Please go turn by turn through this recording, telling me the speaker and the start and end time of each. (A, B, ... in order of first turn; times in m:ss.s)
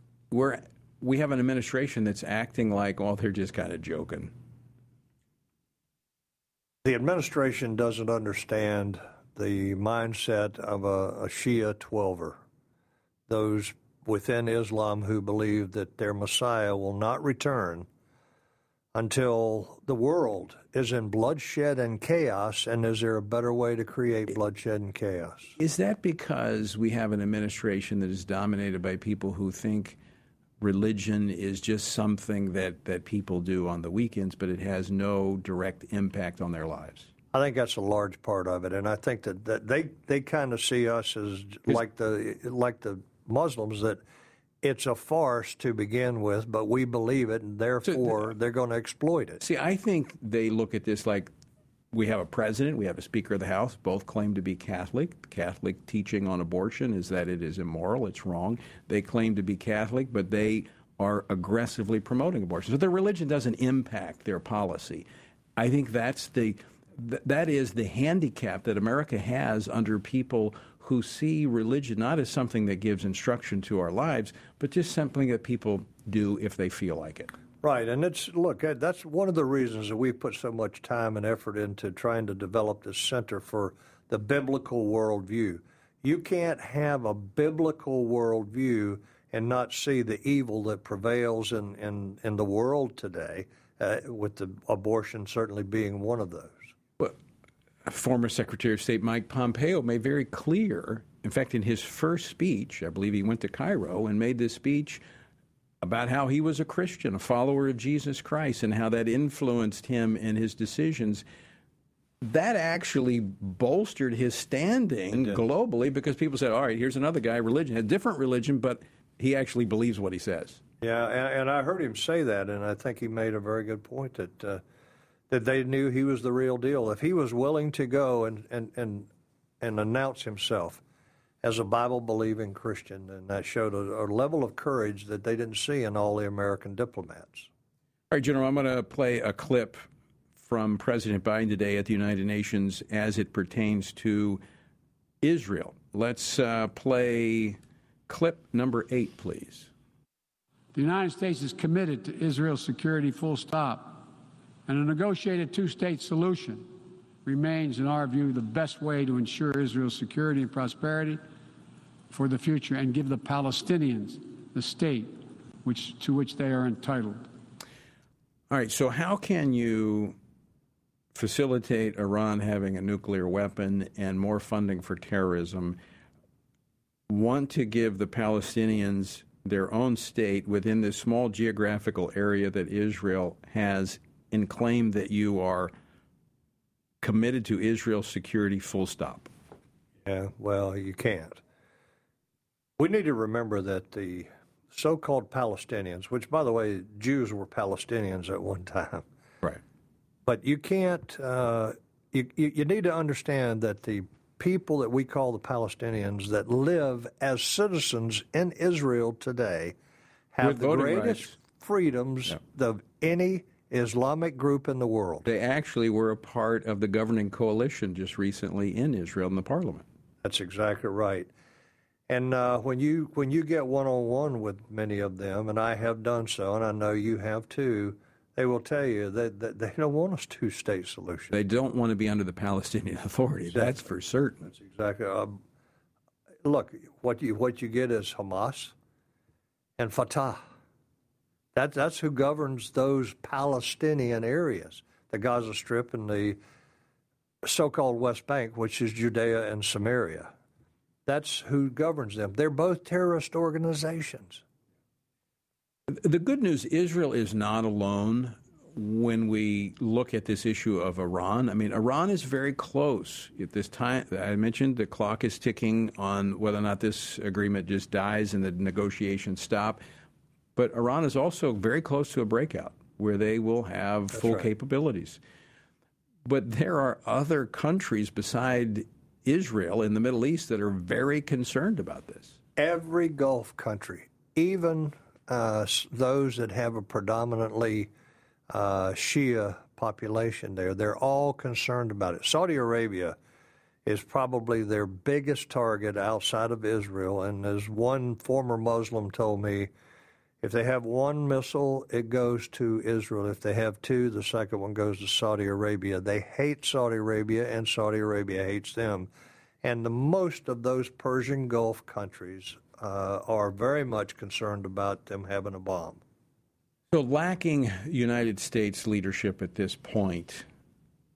0:00.3-0:04.3 A
0:06.8-0:12.4 B
0:13.3-0:17.9 B
0:18.9-0:25.6 B
0:25.6-0:30.0 A
0:30.6-0:37.1 A
0:37.3-0:44.0 B
0:44.6-0:49.4 B
0:47.9-0:48.3 A
0:49.4-0:51.3 A
0:51.9-1:05.1 A
1:05.6-1:17.3 A
1:17.6-1:36.7 B
1:37.8-1:45.0 A
1:45.8-1:51.2 A
1:52.2-2:00.6 A
1:55.1-1:55.4 B
2:00.8-2:04.6 B
2:05.3-2:09.1 B
2:09.6-2:10.8 B
2:11.4-2:17.5 B
2:18.1-2:19.8 A
2:20.4-2:24.4 A
2:25.2-2:29.7 A
2:30.7-2:34.1 C
2:34.7-2:36.7 C
2:37.2-2:41.2 C
2:42.1-2:47.3 C
2:48.5-2:50.2 A
2:51.1-2:55.8 A
2:57.1-3:05.7 A
3:07.0-3:09.3 A
3:10.0-3:11.4 B
3:12.8-3:19.0 B
3:20.3-3:29.8 B
3:30.3-3:35.3 B
3:30.4-3:31.4 A
3:35.2-3:39.8 A
3:40.2-3:41.3 B
3:42.1-3:51.3 B
3:51.3-3:54.5 A
3:53.5-3:53.8 B
3:54.4-3:55.4 B
3:56.4-3:58.7 B
3:59.8-4:00.4 B
4:01.5-4:06.4 B
4:07.4-4:10.3 B
4:11.1-4:14.4 B
4:15.9-4:29.8 A
4:30.6-4:35.2 A
4:34.1-4:34.5 B
4:36.2-4:42.4 A
4:42.6-4:47.9 B
4:48.5-4:53.2 B
4:53.9-4:59.7 B
5:00.4-5:09.1 B
5:09.6-5:16.0 B
5:16.9-5:20.5 A